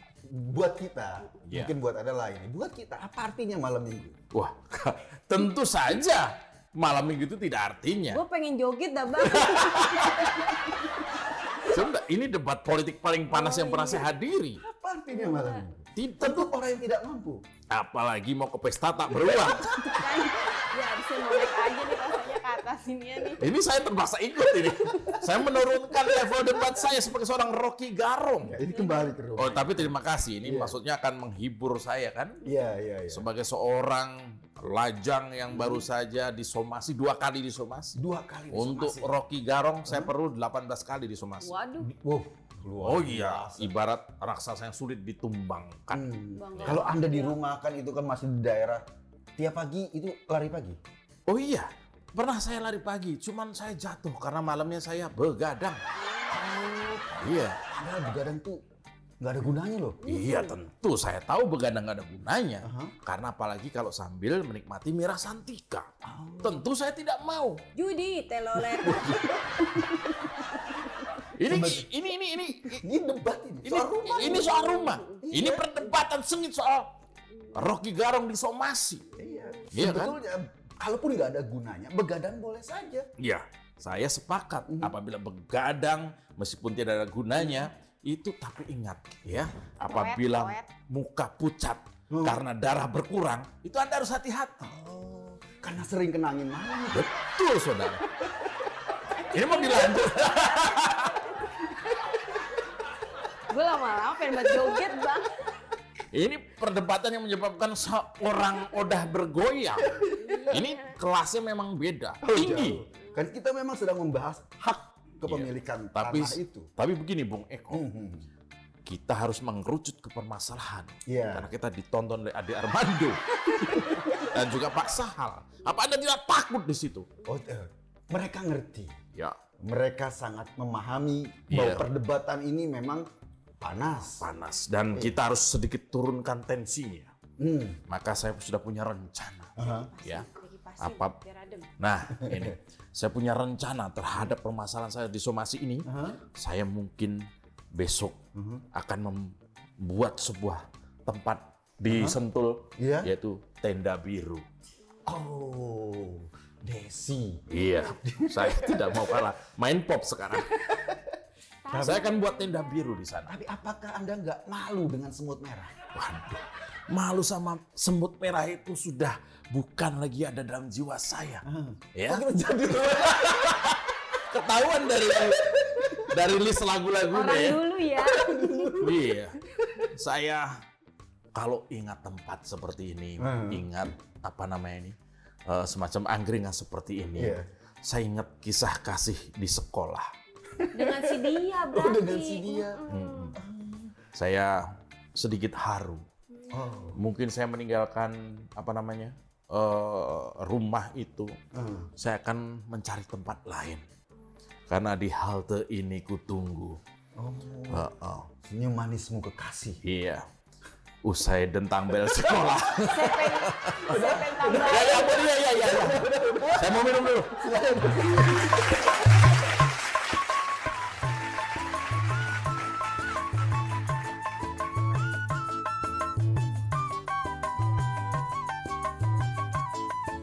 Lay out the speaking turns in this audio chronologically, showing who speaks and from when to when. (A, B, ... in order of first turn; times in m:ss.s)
0:00.3-0:04.2 A
0:01.5-0:01.7 B
0:04.3-0:08.2 B
0:08.1-0:11.7 C
0:09.2-0:10.5 B
0:11.6-0:14.6 B
0:13.3-0:14.1 C
0:14.6-0:17.4 A
0:15.1-0:15.6 C
0:16.0-0:16.5 B
0:17.7-0:20.2 B
0:19.2-0:19.6 A
0:19.3-0:23.5 C
0:23.4-0:28.6 B
0:24.9-0:25.2 C
0:28.5-0:30.8 A
0:28.7-0:29.2 C
0:29.4-0:32.4 B
0:32.4-0:33.2 A
0:33.1-0:38.0 B
0:35.5-0:35.9 A
0:38.0-0:39.1 A
0:38.5-0:41.6 B
0:39.9-0:40.1 A
0:41.4-0:41.9 C
0:41.8-0:43.7 A
0:42.8-0:46.9 B
0:45.9-0:48.8 A
0:46.4-0:47.4 C
0:49.4-0:50.8 A
0:51.3-0:55.8 B
0:56.0-0:57.0 C
0:56.3-0:58.6 A
0:57.2-0:57.6 B
0:59.2-1:00.0 A
1:00.0-1:00.6 C
1:00.0-1:05.9 B
1:02.6-1:02.9 A
1:06.1-1:06.7 A
1:06.4-1:07.6 B
1:07.7-1:11.2 C
1:08.8-1:09.7 A
1:11.4-1:12.8 B
1:11.4-1:11.9 A
1:12.7-1:14.6 A
1:13.6-1:16.9 B
1:14.1-1:15.2 C
1:15.2-1:15.7 A
1:17.5-1:19.0 B
1:19.2-1:23.1 A
1:19.7-1:20.2 B
1:23.2-1:34.8 B
1:24.7-1:24.9 A
1:29.8-1:30.7 C
1:32.1-1:32.4 A
1:34.7-1:37.1 A
1:36.9-1:38.0 B
1:39.2-1:41.3 B
1:39.2-1:41.4 C
1:43.5-1:45.5 C
1:44.5-1:44.8 A
1:46.1-1:52.8 B
1:50.2-1:50.9 C
1:52.2-1:56.7 A
1:55.2-1:57.8 B
1:57.7-1:58.3 A
1:58.9-2:07.1 B
2:01.1-2:01.5 A
2:03.6-2:04.4 A
2:07.2-2:08.9 A
2:09.6-2:13.0 A
2:11.5-2:11.9 B
2:13.6-2:14.3 A
2:14.0-2:17.1 B
2:17.4-2:17.8 A
2:17.9-2:20.3 B
2:19.6-2:19.9 A
2:19.6-2:21.7 C
2:20.8-2:21.2 B
2:21.8-2:28.2 B
2:22.2-2:22.6 A
2:25.9-2:26.2 A
2:28.4-2:28.6 A
2:28.7-2:34.4 B
2:31.8-2:32.2 A
2:32.8-2:33.1 A
2:35.1-2:37.4 A
2:37.5-2:40.5 B
2:38.0-2:39.3 A
2:40.4-2:41.2 A
2:41.6-2:42.9 C
2:41.7-2:42.1 A
2:41.8-2:43.3 B
2:43.3-2:45.7 A
2:45.9-2:57.6 B
2:51.4-2:53.3 A
2:57.1-2:59.0 C
2:58.0-2:59.1 A
2:58.8-3:00.5 B
3:01.4-3:05.0 B
3:03.2-3:03.7 A
3:05.5-3:10.1 B
3:07.2-3:07.5 A
3:10.6-3:12.8 A
3:10.7-3:13.4 C
3:12.9-3:13.4 B
3:13.4-3:13.9 A
3:14.1-3:14.6 B
3:15.2-3:16.0 B
3:16.5-3:17.0 A
3:17.0-3:21.4 B
3:21.5-3:21.9 A
3:22.0-3:23.8 B
3:24.7-3:26.8 B
3:27.2-3:27.8 A
3:27.7-3:28.3 B
3:28.4-3:29.8 A
3:29.8-3:30.2 B
3:31.0-3:38.1 B
3:32.9-3:35.3 C
3:33.9-3:38.6 A